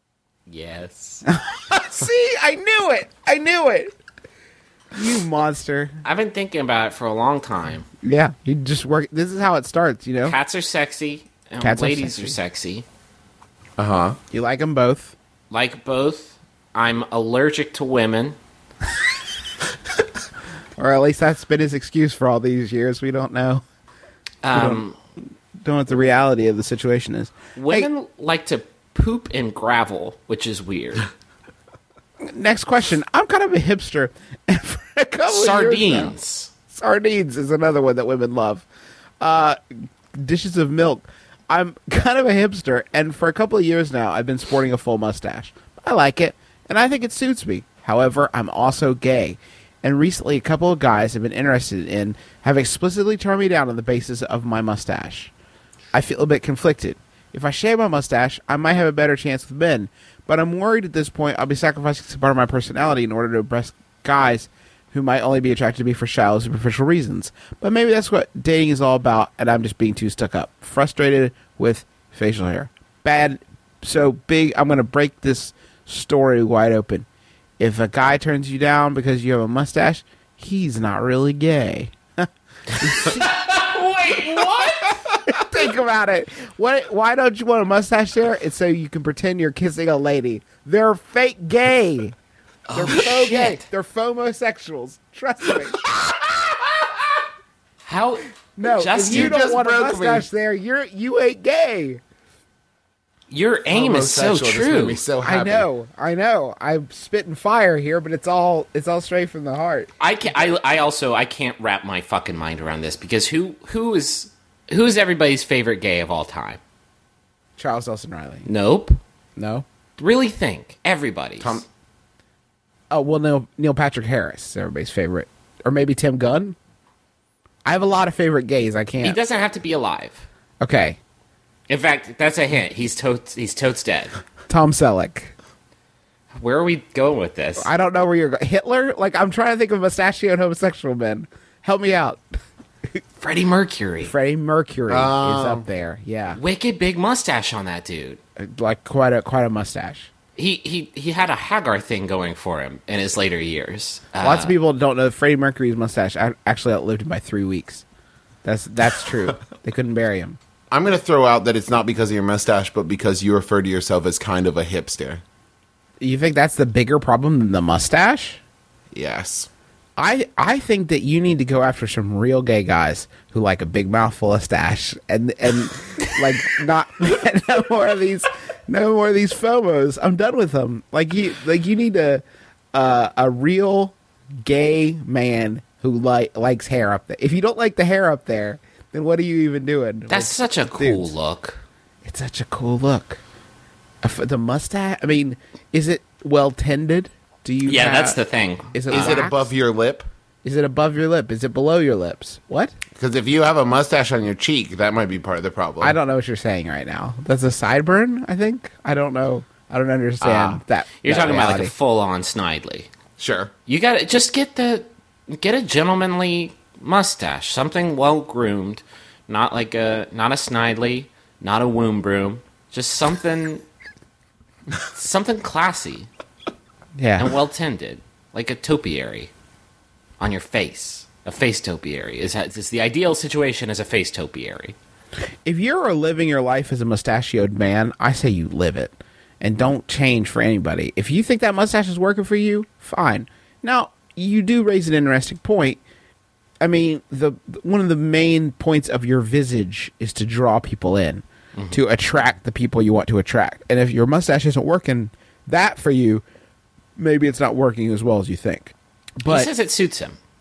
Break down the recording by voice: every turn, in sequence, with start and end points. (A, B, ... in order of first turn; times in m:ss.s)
0:00.5-0:01.2 A
0:01.3-0:03.9 B
0:04.9-0:06.0 B
0:06.0-0:07.8 A
0:08.0-0:10.4 B
0:10.2-0:12.8 A
0:11.6-0:12.3 B
0:13.8-0:14.2 C
0:14.3-0:15.1 B
0:15.5-0:18.4 A
0:20.8-0:23.6 B
0:24.4-0:25.0 A
0:24.5-0:24.8 B
0:25.6-0:27.9 B
0:27.5-0:31.1 A
0:32.2-0:36.1 B
0:35.3-0:36.5 A
0:36.7-0:38.6 B
0:39.2-0:39.6 B
0:40.1-0:55.3 B
0:55.9-1:17.0 B
1:17.6-1:23.3 B
1:22.9-1:25.0 A
1:25.3-1:32.2 B
1:32.7-1:33.6 A
1:32.7-1:36.3 B
1:37.8-1:39.4 A
1:38.6-1:42.0 B
1:39.1-1:40.2 C
1:43.3-1:45.0 A
1:43.7-1:45.7 C
1:45.2-1:49.9 B
1:50.0-1:56.6 A
1:57.6-1:58.5 B
1:58.4-1:59.0 A
1:59.4-1:59.6 B
2:00.0-2:01.6 A
2:01.4-2:01.6 C
2:02.9-2:06.6 B
2:07.6-2:09.2 B
2:09.0-2:10.3 A
2:10.6-2:11.0 B
2:11.7-2:14.2 A
2:14.5-2:15.3 B
2:16.4-2:17.7 A
2:17.6-2:22.2 B
2:23.2-2:24.1 A
2:24.0-2:26.4 B
2:24.9-2:25.6 C
2:26.4-2:28.2 A
2:28.4-2:30.1 B
2:30.4-2:34.5 A
2:34.2-2:37.8 B
2:38.4-2:40.4 B
2:40.7-2:45.2 C
2:46.0-2:48.4 B
2:48.9-2:49.5 C
2:50.0-3:11.1 B
3:10.1-3:11.6 A
3:12.0-3:13.2 B
3:14.0-3:18.2 B
3:17.6-3:19.2 A
3:18.7-3:19.5 B
3:18.9-3:20.1 C
3:20.4-3:22.7 B
3:22.9-3:25.9 C
3:25.8-3:31.7 B
3:30.2-3:30.5 C
3:30.3-3:32.9 A
3:33.2-3:33.5 C
3:33.7-3:43.6 A
3:44.8-3:46.1 A
3:47.0-3:47.3 B
3:47.2-3:49.3 A
3:50.2-3:54.8 A
3:55.4-4:05.8 B
4:06.6-4:16.2 B
4:17.0-4:19.5 B
4:19.2-4:20.2 A